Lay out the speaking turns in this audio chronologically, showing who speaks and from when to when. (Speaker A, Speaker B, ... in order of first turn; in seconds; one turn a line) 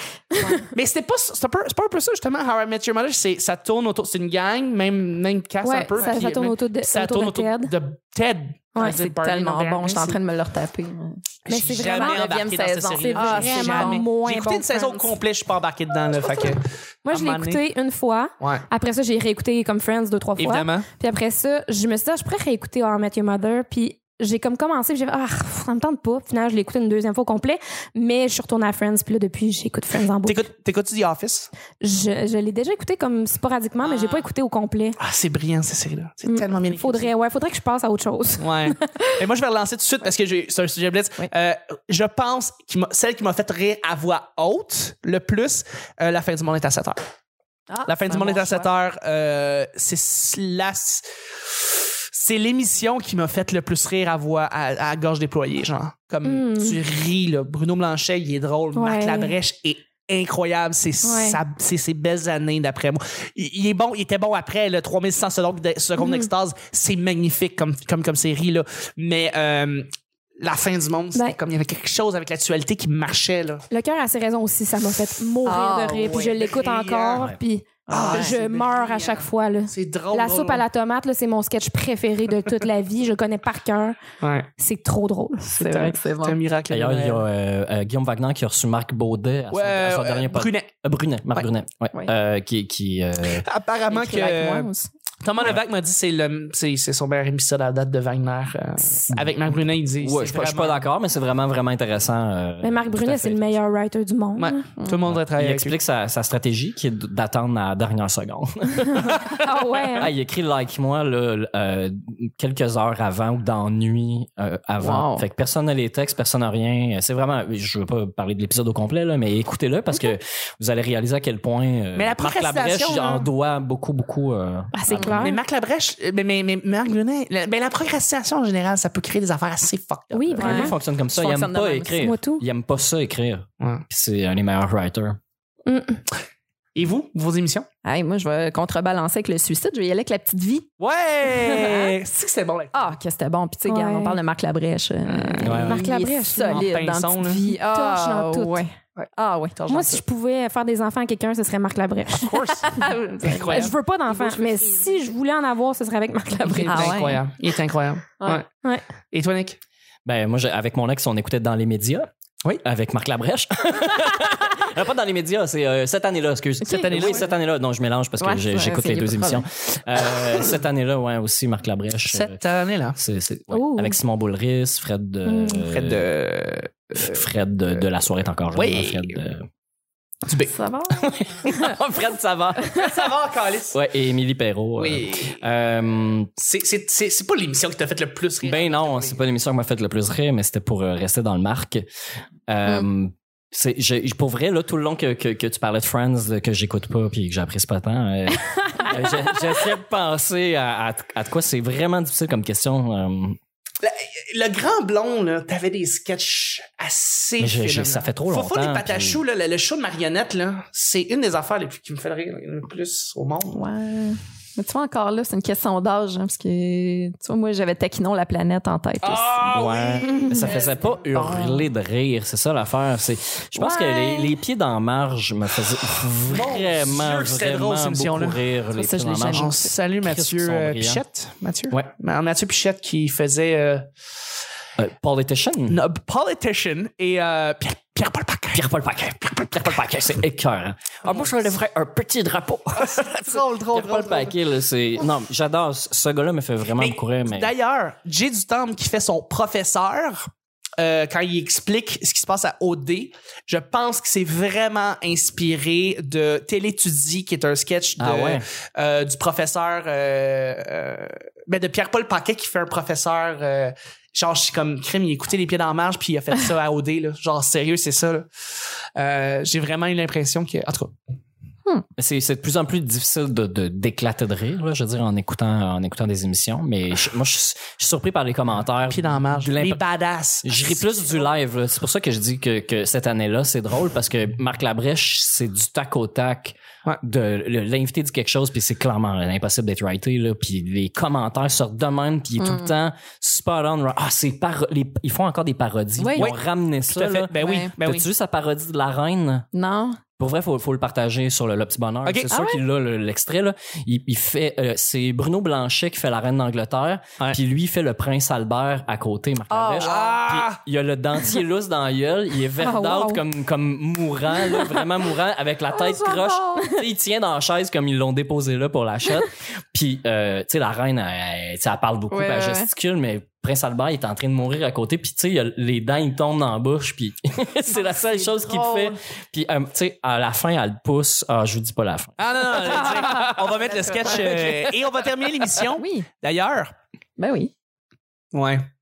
Speaker A: 0.3-0.7
Speaker B: 0.7-10.2
Speaker A: 5.6-7.7
Speaker A: 8.8-9.1
Speaker C: 8.8-14.1
Speaker A: 11.5-12.2
Speaker B: 11.5-17.6
Speaker A: 12.9-15.1
Speaker A: 17.1-30.4
Speaker B: 18.4-18.7
Speaker B: 20.4-20.9
Speaker B: 30.2-31.5
Speaker A: 31.8-35.0
Speaker B: 33.8-34.3
Speaker B: 35.0-37.1
Speaker A: 36.3-39.0
Speaker B: 38.4-47.0
Speaker C: 47.7-48.7
Speaker B: 47.9-73.7
Speaker A: 56.2-56.8
Speaker A: 58.8-59.4
Speaker A: 61.0-61.4
Speaker A: 66.0-66.3
Speaker A: 73.7-84.0
Speaker C: 75.5-76.3
Speaker B: 76.0-77.3
Speaker C: 77.9-78.3
Speaker B: 77.9-80.6
Speaker B: 84.2-84.5
Speaker A: 84.6-85.6
Speaker B: 85.6-87.2
Speaker C: 85.6-86.4
Speaker D: 86.7-93.5
Speaker B: 89.5-90.7
Speaker B: 93.2-94.7
Speaker C: 93.9-94.9
Speaker B: 95.2-100.8
Speaker D: 99.1-99.4
Speaker D: 100.0-103.6
Speaker A: 102.6-104.7
Speaker B: 104.4-105.8
Speaker D: 105.1-125.2
Speaker A: 109.4-110.1
Speaker C: 114.8-115.2
Speaker B: 122.0-123.3
Speaker A: 124.7-125.4
Speaker B: 124.9-130.7
Speaker A: 130.1-130.7
Speaker C: 130.4-132.1
Speaker D: 130.4-135.2
Speaker A: 132.0-132.4
Speaker B: 133.6-133.8
Speaker A: 135.7-136.0
Speaker B: 136.8-137.7
Speaker C: 137.8-140.7
Speaker B: 140.8-142.8
Speaker C: 141.3-142.0
Speaker C: 142.7-149.6
Speaker A: 143.7-144.2
Speaker B: 145.1-145.7
Speaker D: 145.4-145.8
Speaker A: 145.7-146.7
Speaker B: 146.4-147.4
Speaker A: 147.7-148.7
Speaker B: 149.0-150.0
Speaker A: 149.7-157.0
Speaker B: 152.2-153.7
Speaker C: 152.8-155.1
Speaker B: 156.5-158.5
Speaker C: 156.7-157.2
Speaker B: 159.1-159.6
Speaker D: 160.1-162.1
Speaker D: 162.6-172.4
Speaker B: 166.7-167.3
Speaker C: 168.2-169.4
Speaker B: 172.1-173.0
Speaker D: 173.0-176.1
Speaker A: 173.5-174.0
Speaker A: 175.3-175.6
Speaker B: 175.5-177.2
Speaker D: 177.0-179.5
Speaker B: 178.6-179.2
Speaker B: 180.3-180.6
Speaker C: 180.5-181.1
Speaker D: 181.0-183.1
Speaker B: 182.7-183.8
Speaker D: 183.7-186.3
Speaker B: 184.8-185.4
Speaker B: 186.4-189.2
Speaker D: 188.4-191.9
Speaker D: 192.5-203.4
Speaker B: 203.8-213.6
Speaker D: 207.4-209.2
Speaker C: 213.5-219.5
Speaker B: 219.0-221.3
Speaker D: 219.5-231.0
Speaker A: 220.1-220.5
Speaker C: 221.1-221.7
Speaker C: 223.6-224.3
Speaker B: 226.3-228.4
Speaker C: 228.7-229.7
Speaker B: 229.3-233.9
Speaker D: 234.8-235.8
Speaker B: 235.7-238.7
Speaker D: 238.5-247.5
Speaker B: 241.0-241.5
Speaker B: 242.8-244.4
Speaker B: 246.7-268.3
Speaker D: 258.0-258.4
Speaker B: 269.0-270.9
Speaker D: 272.0-279.8
Speaker B: 278.9-281.3
Speaker D: 280.4-299.5
Speaker C: 292.4-292.7
Speaker C: 296.0-296.3
Speaker B: 296.2-298.1
Speaker C: 297.4-297.7
Speaker C: 299.5-300.0
Speaker D: 300.2-332.9
Speaker B: 302.1-302.3
Speaker C: 302.3-302.6
Speaker C: 309.5-310.2
Speaker B: 309.8-310.6
Speaker C: 312.6-313.2
Speaker C: 314.3-314.9
Speaker C: 315.7-316.9
Speaker C: 322.1-322.7
Speaker C: 327.7-329.0
Speaker B: 332.2-336.7
Speaker C: 332.8-334.6
Speaker C: 335.8-336.1
Speaker C: 337.2-337.5
Speaker B: 338.3-338.7